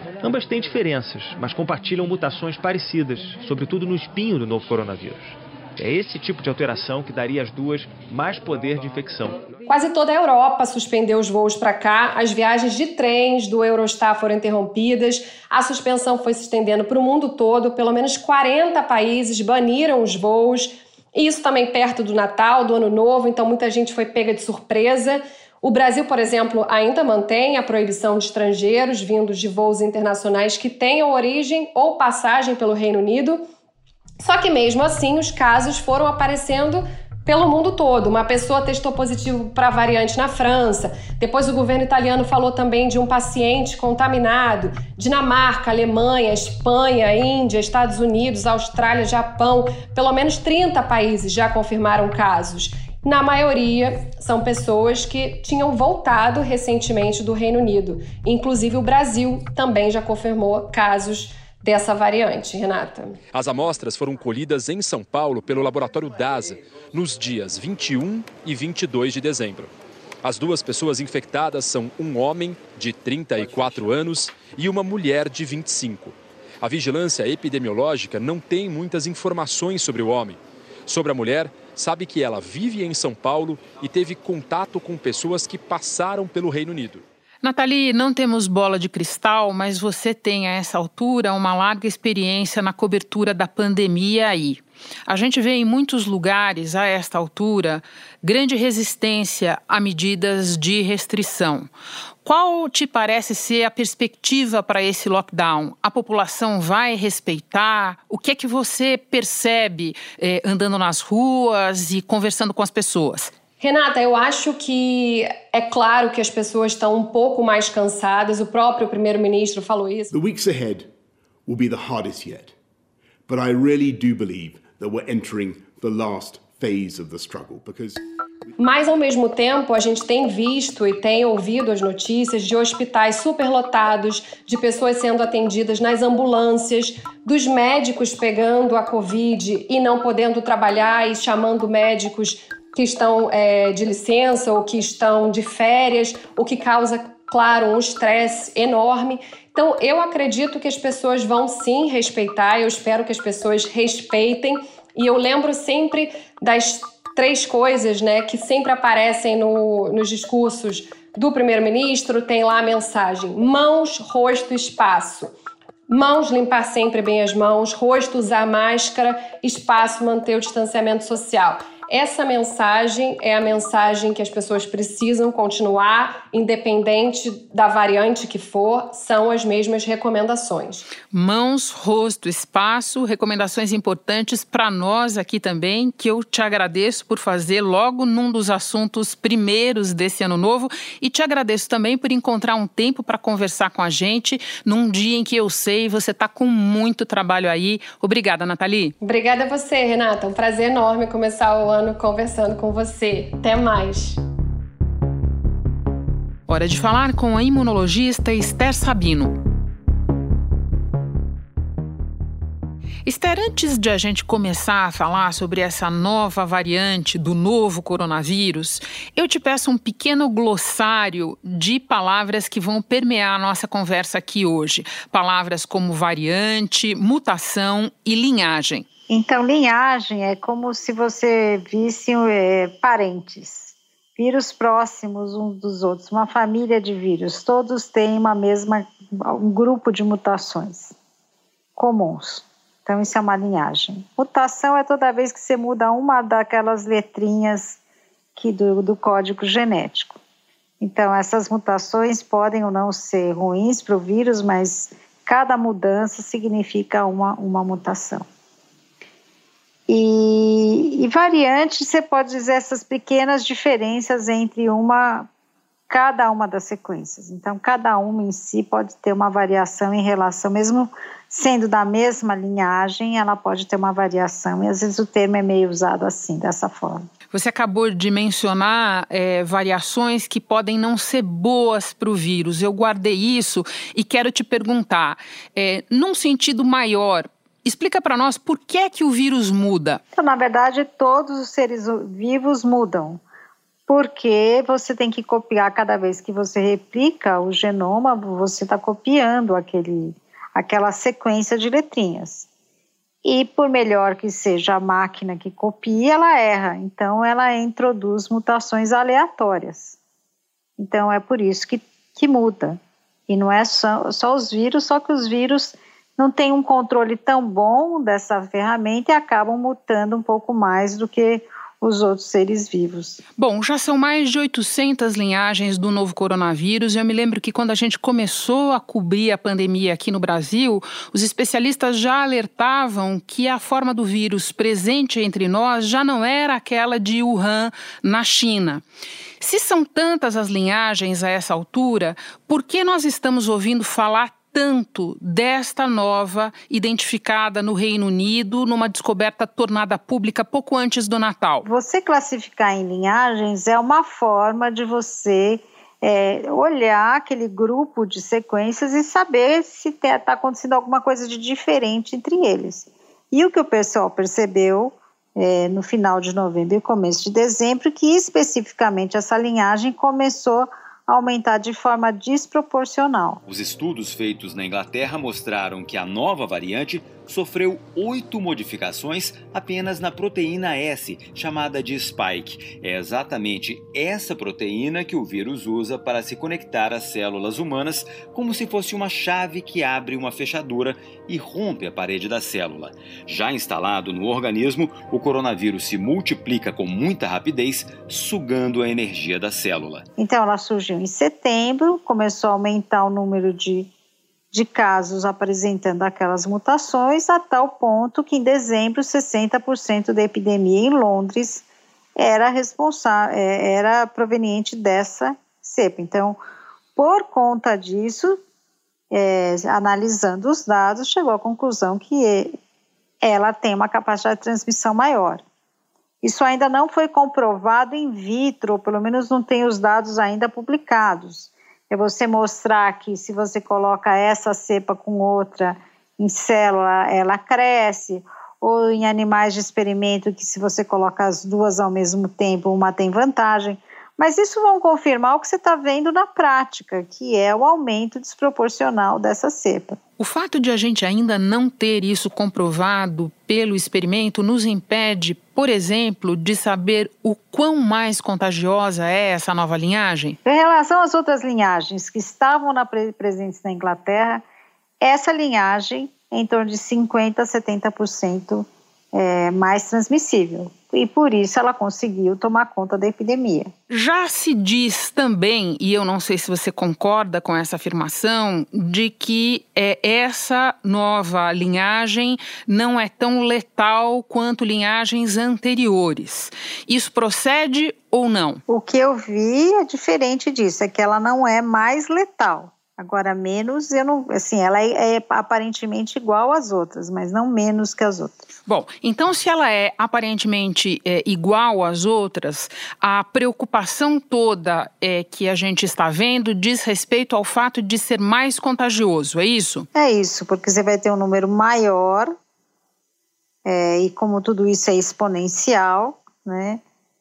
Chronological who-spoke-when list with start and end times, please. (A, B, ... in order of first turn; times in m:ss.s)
0:00.2-0:09.5 A
0:09.7-0:33.4 B
0:34.2-1:03.2 B
1:03.3-1:09.7 C
1:10.2-1:27.0 C
1:27.4-1:41.7 D
1:42.2-1:53.3 D
1:53.6-2:00.1 B
2:00.1-2:00.9 E
2:01.5-2:02.5 E
2:03.3-2:08.0 E
2:08.6-2:45.3 B
2:45.9-3:00.9 B
3:01.1-3:19.0 D
3:19.0-3:24.2 B
3:26.5-3:29.4 D
3:33.1-3:48.9 D
3:49.1-4:01.0 F
4:01.8-4:07.8 F
4:08.4-4:10.2 F
4:10.8-4:18.2 F
4:19.9-4:25.3 F
4:25.9-4:37.1 F
4:37.3-4:50.0 D
4:50.2-4:53.2 F
4:53.9-5:02.5 F
5:03.2-5:10.0 F
5:10.8-5:23.2 F
5:23.4-5:38.8 D
5:39.4-5:51.7 D
5:51.6-6:13.4 F
6:13.5-6:40.0 G
6:40.2-6:43.9 F
6:44.5-6:51.6 F
6:52.2-6:56.4 F
6:57.0-6:58.4 F
6:59.1-7:02.5 F
7:03.2-7:05.4 F
7:06.2-7:30.0 F
7:30.2-7:40.4 D
7:40.4-7:44.4 F
7:45.0-7:53.7 F
7:53.9-8:08.6 D
8:08.7-8:18.5 F
8:18.7-8:29.9 D
8:30.0-8:32.3 F
8:33.6-8:36.8 F